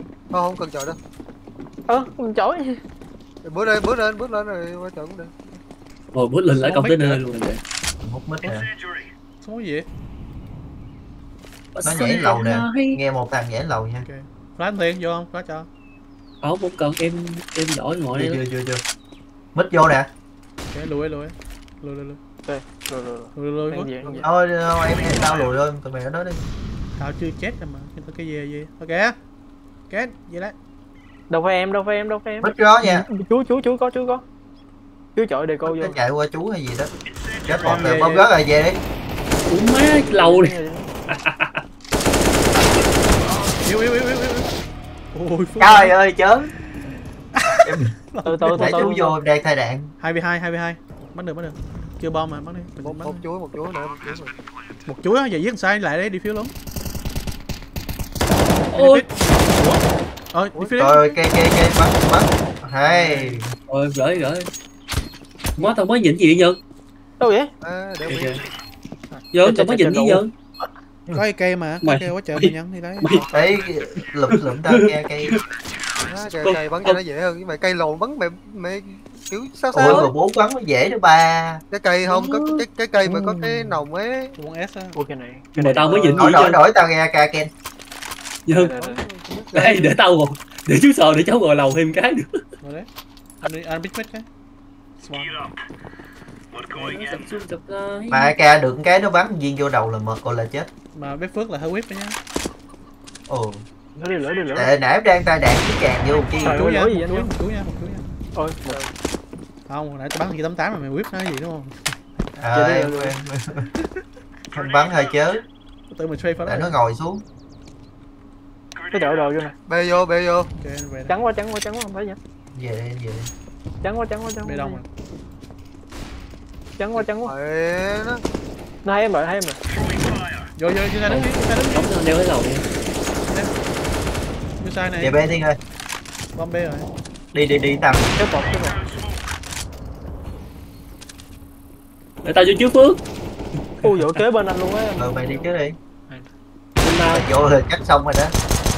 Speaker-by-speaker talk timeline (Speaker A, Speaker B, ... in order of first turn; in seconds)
Speaker A: 0.3-1.0, 3.4-5.4, 52.8-54.4, 60.5-60.8, 67.6-68.4, 76.0-80.1, 81.7-84.4, 89.1-89.9, 119.7-120.5, 127.2-128.2
Speaker B: 1.9-2.8, 22.4-24.3, 31.3-34.2, 35.1-36.0, 39.9-40.9, 48.2-49.2, 67.2-67.5, 69.4-70.2, 79.8-80.1, 83.0-83.8, 84.9-86.2, 88.5-89.0, 104.0-104.7, 106.4-107.3, 108.3-108.8, 112.5-113.1, 118.9-119.5, 121.1-122.2, 123.8-124.8, 126.8-127.3, 128.8-129.6, 138.2-138.9, 143.8-145.5
Speaker C: 6.1-7.6, 11.8-13.0, 16.4-18.4, 39.5-40.6, 41.1-41.6, 58.7-59.0, 63.7-64.5, 65.6-66.6, 68.0-68.4, 69.3-70.3, 71.8-73.2, 74.7-75.4, 76.4-77.0, 82.1-82.7, 85.5-86.6, 88.5-88.7, 89.5-92.3, 96.8-98.3, 131.1-132.7, 142.2-143.0, 143.8-144.2, 146.8-147.3
Speaker D: 6.5-7.2, 9.4-9.9, 14.0-15.7, 20.7-22.2, 23.4-24.1, 27.0-29.1, 29.9-30.6, 37.6-38.3, 43.6-44.5, 45.1-46.0, 47.4-49.0, 50.0-53.2, 54.9-56.5, 58.7-59.8, 60.3-61.2, 62.9-63.4, 71.1-73.1, 84.4-85.0, 89.0-89.7, 92.6-92.9, 93.4-94.2, 95.0-95.4, 100.9-102.2, 106.4-108.1, 109.7-111.8, 115.9-116.8, 120.6-121.2, 124.4-124.9, 130.6-131.9, 133.3-133.6, 134.6-135.2, 136.3-136.9
Speaker E: 8.0-8.7, 11.8-14.1, 18.1-18.8, 19.6-20.1, 24.2-26.5, 32.4-33.1, 35.7-36.9, 37.5-38.8, 45.6-46.5, 47.7-47.9, 48.5-49.9, 60.8-63.5, 73.3-75.4, 79.7-81.6, 86.1-87.5, 98.1-100.7, 103.3-103.6, 104.5-106.6, 112.4-113.7, 114.5-115.5, 116.4-117.2, 122.5-123.3, 135.0-135.6, 137.3-138.1, 145.0-145.8, 147.1-148.3